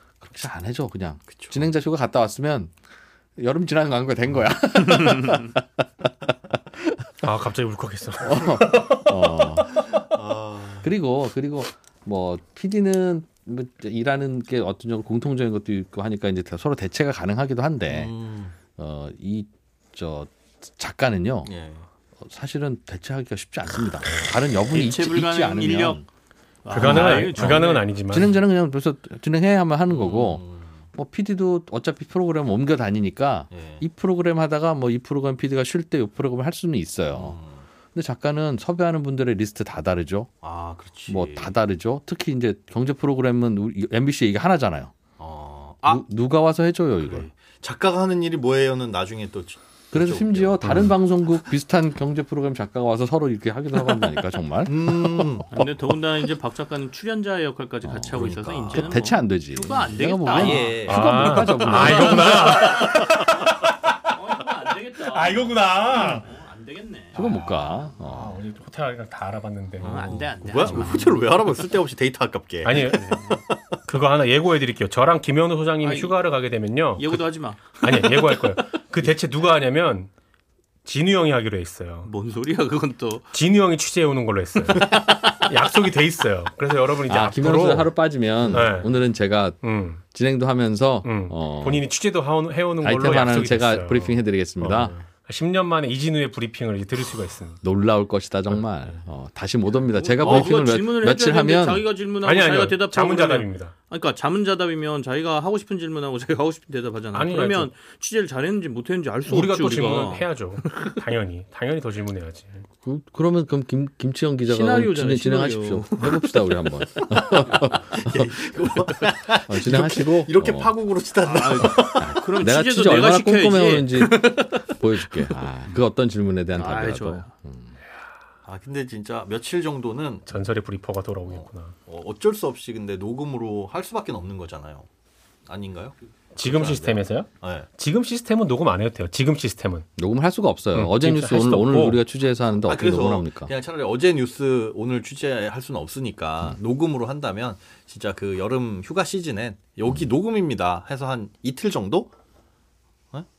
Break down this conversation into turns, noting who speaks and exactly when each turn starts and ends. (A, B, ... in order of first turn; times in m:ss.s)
0:00.2-0:02.7 A
0:01.3-0:01.7 B
0:03.4-0:05.6 A
0:07.2-0:09.6 C
0:08.2-0:09.7 A
0:09.7-0:10.9 B
0:10.8-0:18.1 A
0:17.8-0:18.6 B
0:18.8-0:21.5 A
0:21.5-0:21.9 B
0:22.2-0:26.1 A
0:24.7-0:26.0 D
0:26.6-0:28.0 D
0:26.7-0:37.4 A
0:26.7-0:28.4 C
0:29.9-0:30.9 B
0:33.5-0:33.8 B
0:37.1-0:37.7 B
0:37.9-0:40.3 A
0:40.4-0:41.5 B
0:41.1-0:44.9 A
0:45.2-0:46.0 B
0:45.9-0:47.3 A
0:47.0-0:50.9 B
0:49.9-0:55.5 A
0:50.6-0:50.9 C
0:54.6-0:55.5 B
0:55.5-1:00.8 D
0:57.8-1:02.4 A
1:00.3-1:01.5 B
1:00.6-1:04.0 C
1:01.7-1:03.6 D
1:04.1-1:07.2 D
1:05.0-1:06.3 C
1:07.2-1:07.9 B
1:07.2-1:08.4 A
1:08.0-1:11.1 C
1:09.8-1:11.5 D
1:09.8-1:13.6 B
1:12.6-1:13.1 C
1:12.8-1:13.4 D
1:13.8-1:20.1 C
1:15.8-1:16.3 D
1:16.9-1:18.4 D
1:20.8-1:22.1 C
1:22.0-1:23.4 D
1:23.3-1:28.0 C
1:24.7-1:25.4 D
1:27.1-1:31.8 A
1:28.5-1:28.9 C
1:28.5-1:28.8 D
1:29.6-1:30.0 C
1:31.0-1:37.6 C
1:32.8-1:35.0 A
1:37.6-1:41.9 A
1:39.7-1:50.9 D
1:40.2-1:40.5 C
1:42.2-1:43.8 C
1:47.1-1:47.7 C
1:49.3-1:52.6 C
1:52.8-1:58.3 A
1:54.4-1:58.0 D
1:57.8-2:02.2 B
1:59.5-2:00.8 A
2:01.2-2:05.5 D
2:01.8-2:07.7 A
2:06.5-2:07.3 D
2:08.5-2:10.2 B
2:10.2-2:11.8 C
2:11.3-2:14.9 B
2:15.5-2:17.7 B
2:16.4-2:19.8 C
2:20.0-2:23.5 A
2:20.7-2:22.0 C
2:22.6-2:32.1 B